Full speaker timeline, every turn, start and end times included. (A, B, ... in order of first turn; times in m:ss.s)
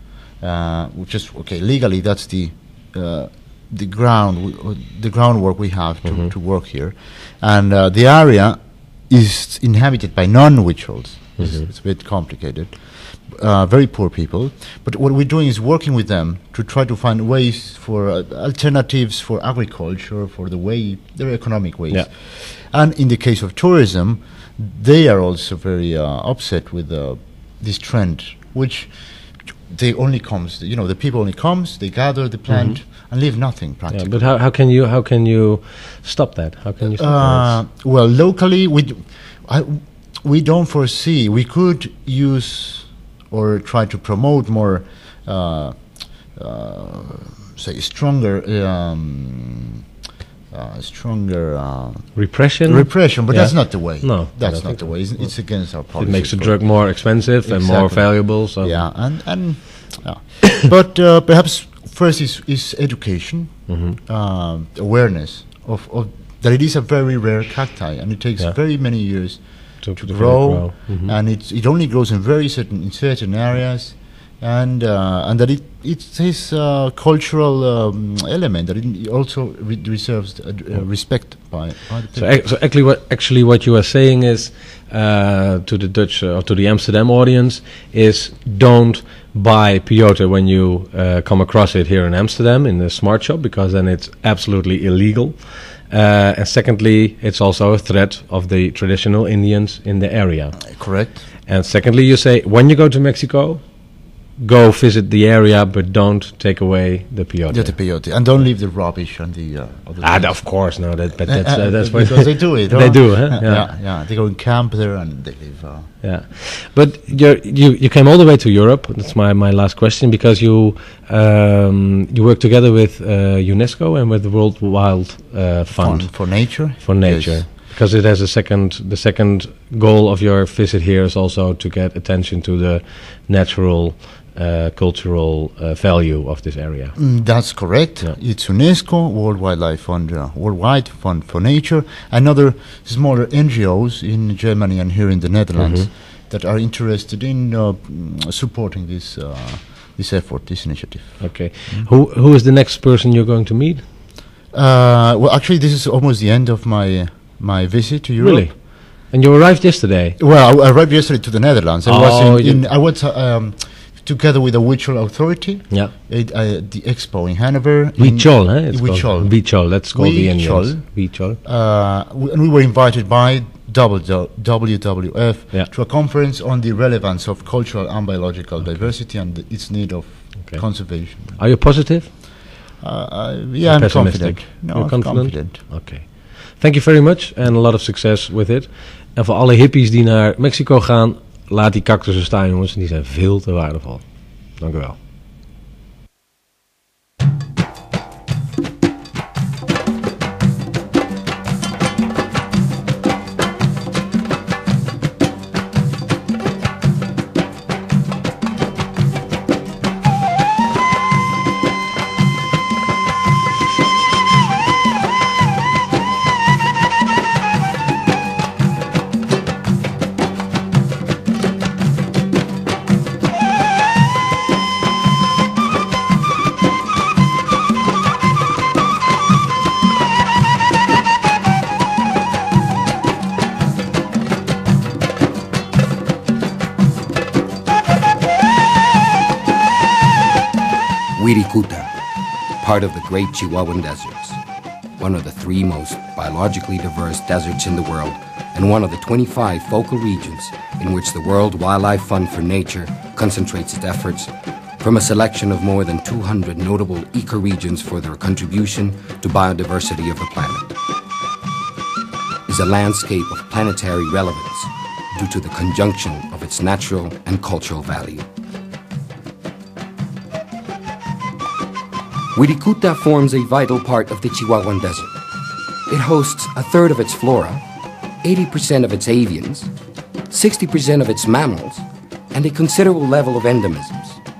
0:00.4-0:34.3 A
0:06.0-0:06.3 B
0:11.4-0:11.7 B
0:32.5-0:32.8 B
0:33.9-0:37.6 B
0:36.8-0:49.8 A
0:50.5-1:22.4 A
0:52.1-0:59.0 B
1:03.7-1:04.0 B
1:09.8-1:11.1 B
1:22.1-1:43.6 B
1:40.7-1:41.2 A
1:44.4-1:47.8 B
1:47.5-1:55.9 A
1:50.0-1:53.7 B
1:56.0-2:17.5 B
2:05.7-2:07.4 A
2:17.0-2:31.9 A
2:25.6-2:25.9 B
2:31.2-2:33.8 B
2:34.5-2:38.5 A
2:38.2-2:40.2 B
2:40.2-3:01.4 A
2:41.8-2:42.7 B
2:48.0-2:51.4 B
2:58.6-2:58.9 B
3:00.4-3:02.1 B
3:02.8-3:05.6 A
3:03.6-3:15.0 B
4:01.2-4:01.9 C
4:02.6-4:04.4 C
4:05.0-4:20.7 C
4:22.5-4:28.2 C
4:32.3-4:35.2 C
4:35.9-4:37.6 C
4:38.2-4:39.7 C
4:40.3-4:44.2 C